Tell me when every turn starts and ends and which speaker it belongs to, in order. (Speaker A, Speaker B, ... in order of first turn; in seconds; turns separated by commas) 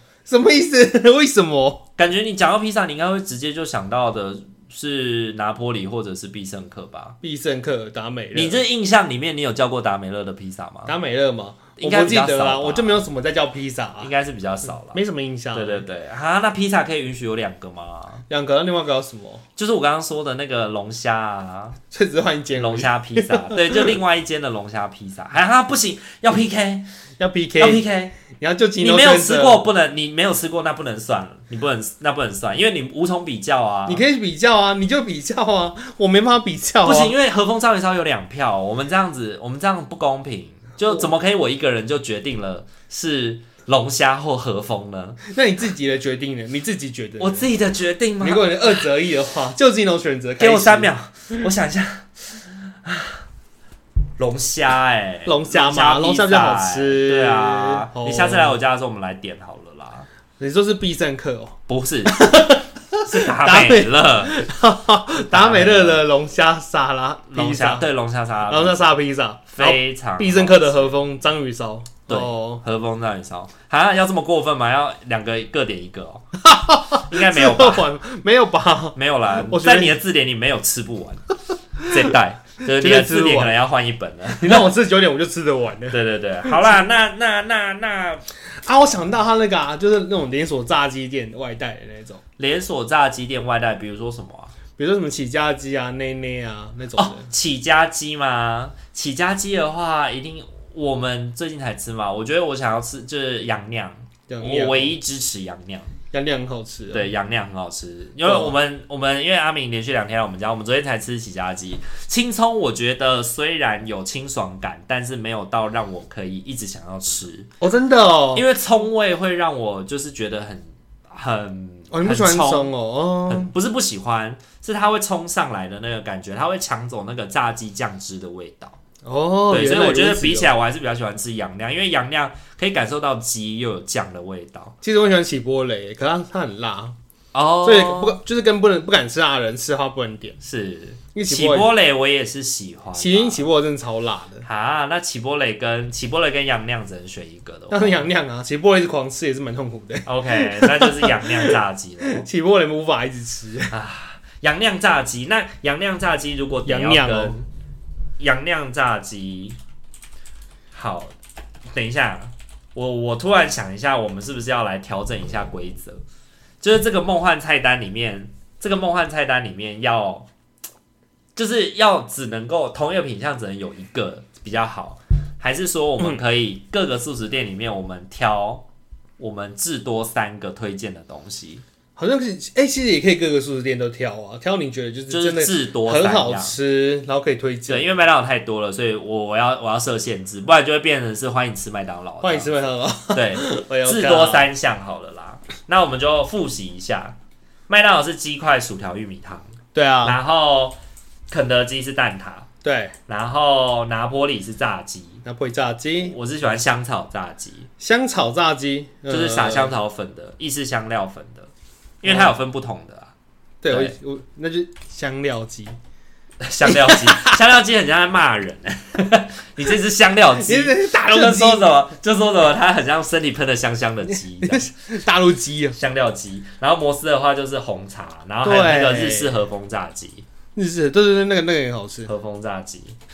Speaker A: 0.3-1.8, Speaker B: 2.0-7.2, Speaker A: 7.2-8.6, Speaker B: 8.3-10.9, Speaker A: 10.8-14.1, Speaker B: 11.8-13.0, Speaker B: 14.0-15.0, Speaker A: 14.7-15.8, Speaker B: 15.5-18.2, Speaker A: 18.3-19.4, Speaker B: 19.6-21.8, Speaker A: 21.9-23.9, Speaker B: 22.6-26.9, Speaker A: 27.2-29.6, Speaker B: 27.6-28.1, Speaker B: 28.8-34.0, Speaker A: 33.9-37.1, Speaker B: 36.8-45.2, Speaker A: 45.3-47.5, Speaker B: 47.2-48.9, Speaker A: 48.2-50.9, Speaker B: 50.4-53.2, Speaker B: 54.2-60.1, Speaker A: 55.2-58.6, Speaker A: 60.4-67.8, Speaker B: 61.7-62.3, Speaker B: 63.0-64.3, Speaker B: 65.2-66.0, Speaker B: 67.3-68.9, Speaker A: 68.5-72.6, Speaker B: 69.5-70.9, Speaker B: 72.1-76.2, Speaker A: 76.4-80.0, Speaker B: 77.1-77.9, Speaker B: 78.9-81.2, Speaker B: 81.8-84.7, Speaker A: 82.7-83.5, Speaker A: 84.4-86.7, Speaker B: 85.9-88.2, Speaker A: 88.6-92.2, Speaker B: 92.4-94.5, Speaker A: 94.8-97.3, Speaker B: 97.0-105.9, Speaker A: 104.3-105.0, Speaker A: 106.1-107.1, Speaker B: 106.9-117.5, Speaker A: 108.2-108.5, Speaker A: 117.6-118.4, Speaker B: 118.3-122.7, Speaker A: 121.9-123.5, Speaker B: 123.3-128.8, Speaker A: 129.0-130.5, Speaker B: 129.5-134.7, Speaker A: 134.8-136.9, Speaker B: 137.3-138.2, Speaker A: 137.6-140.4, Speaker B: 140.4-143.4, Speaker A: 141.1-141.7, Speaker A: 142.9-144.4, Speaker B: 144.4-148.1, Speaker A: 147.7-153.7, Speaker B: 150.1-152.2, Speaker B: 153.7-157.4, Speaker A: 156.7-157.4, Speaker B: 158.2-159.6, Speaker B: 160.7-161.1, Speaker B: 161.7-166.0, Speaker B: 166.6-170.3, Speaker B: 171.3-178.6, Speaker B: 179.2-181.6, Speaker A: 182.0-188.0, Speaker B: 185.1-186.6, Speaker B: 187.7-192.5, Speaker A: 192.2-194.5, Speaker B: 193.1-197.2, Speaker B: 197.7-200.8, Speaker A: 199.7-200.2, Speaker B: 201.3-202.5, Speaker A: 202.6-202.9, Speaker B: 203.1-205.2, Speaker A: 205.2-206.2, Speaker B: 206.1-207.7, Speaker A: 207.8-209.7, Speaker B: 209.1-211.5, Speaker B: 212.0-213.1, Speaker A: 212.1-212.3, Speaker A: 213.6-215.8, Speaker B: 216.4-224.7, Speaker A: 216.6-217.4, Speaker A: 220.4-221.7, Speaker A: 224.1-225.8, Speaker B: 225.7-230.2, Speaker A: 228.4-229.4, Speaker A: 230.6-232.1, Speaker B: 232.1-232.9